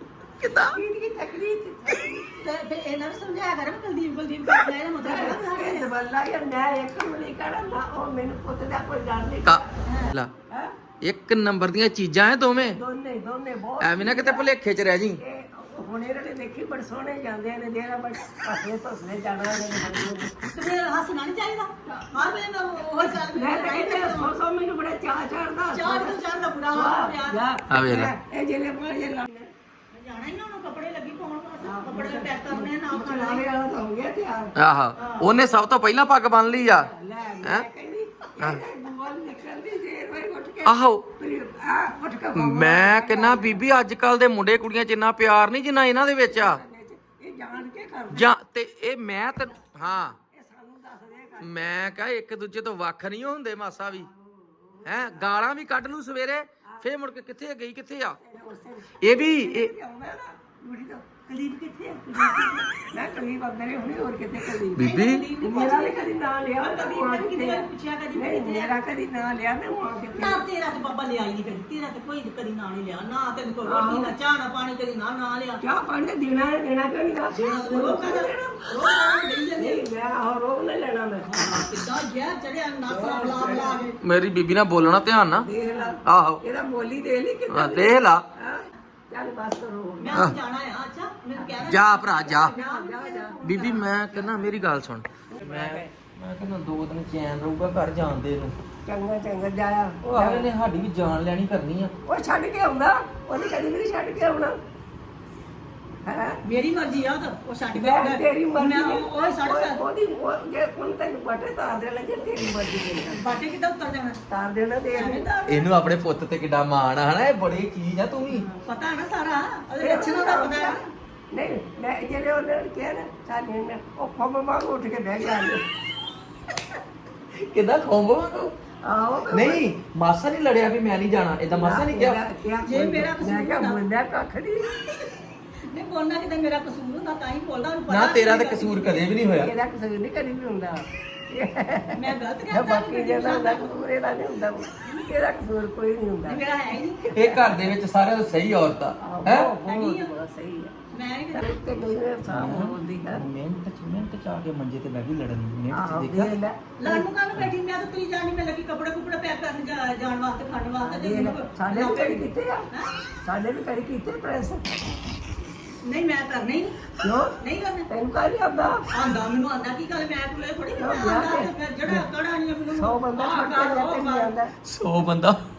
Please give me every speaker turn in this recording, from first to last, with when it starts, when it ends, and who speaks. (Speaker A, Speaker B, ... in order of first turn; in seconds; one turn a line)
Speaker A: 0.4-0.8
Speaker B: 0.7-2.3
Speaker C: 2.3-5.9
Speaker B: 5.0-9.8
Speaker A: 9.4-10.3
Speaker C: 9.8-10.1
Speaker A: 11.0-12.8
Speaker B: 12.7-14.5
Speaker A: 13.8-15.2
Speaker B: 15.2-20.4
Speaker C: 20.5-24.4
Speaker B: 23.0-29.5
Speaker C: 25.7-27.5
Speaker A: 27.7-28.1
Speaker C: 29.9-33.5
Speaker B: 31.6-34.5
Speaker A: 34.6-36.9
Speaker C: 35.0-35.3
Speaker B: 36.5-43.6
Speaker A: 40.6-41.1
Speaker A: 42.3-46.6
Speaker B: 46.3-48.3
Speaker A: 48.1-50.2
Speaker B: 49.8-51.9
Speaker A: 51.4-54.1
Speaker B: 53.9-55.5
Speaker A: 54.8-58.2
Speaker B: 58.2-70.4
Speaker A: 59.0-59.7
Speaker A: 64.7-65.3
Speaker C: 64.8-68.8
Speaker C: 70.2-75.6
Speaker B: 73.7-74.1
Speaker B: 75.6-78.7
Speaker C: 77.3-79.8
Speaker B: 79.6-81.7
Speaker C: 81.3-84.0
Speaker B: 82.9-83.9
Speaker A: 84.0-85.5
Speaker B: 85.4-90.3
Speaker A: 86.0-86.4
Speaker A: 87.5-88.2
Speaker C: 90.0-94.3
Speaker B: 91.4-91.7
Speaker A: 91.6-92.5
Speaker B: 92.4-93.8
Speaker A: 93.4-98.5
Speaker B: 95.3-95.9
Speaker B: 98.8-100.5
Speaker A: 100.1-101.9
Speaker B: 102.0-104.6
Speaker B: 106.0-106.4
Speaker C: 106.4-109.8
Speaker B: 107.7-113.2
Speaker C: 113.1-114.2
Speaker B: 114.3-115.3
Speaker C: 114.9-115.7
Speaker A: 115.5-118.5
Speaker C: 118.3-120.9
Speaker B: 119.8-120.8
Speaker B: 121.3-125.7
Speaker A: 127.3-128.5
Speaker B: 128.8-129.6
Speaker A: 129.3-132.2
Speaker B: 131.5-135.0
Speaker C: 132.6-133.8
Speaker C: 135.7-139.0
Speaker A: 137.9-139.5
Speaker B: 139.3-147.7
Speaker C: 141.9-143.8
Speaker C: 146.2-147.5
Speaker A: 147.1-149.5
Speaker B: 149.0-150.8
Speaker C: 149.6-150.1
Speaker C: 150.9-151.5
Speaker B: 151.3-153.2
Speaker A: 152.3-156.3
Speaker B: 155.7-157.1
Speaker C: 156.8-162.9
Speaker B: 160.8-162.7
Speaker B: 163.2-165.0
Speaker C: 165.8-167.9
Speaker B: 167.0-167.4
Speaker B: 167.9-168.9
Speaker C: 168.9-174.3
Speaker B: 170.8-172.0
Speaker B: 172.8-174.5
Speaker A: 174.6-175.4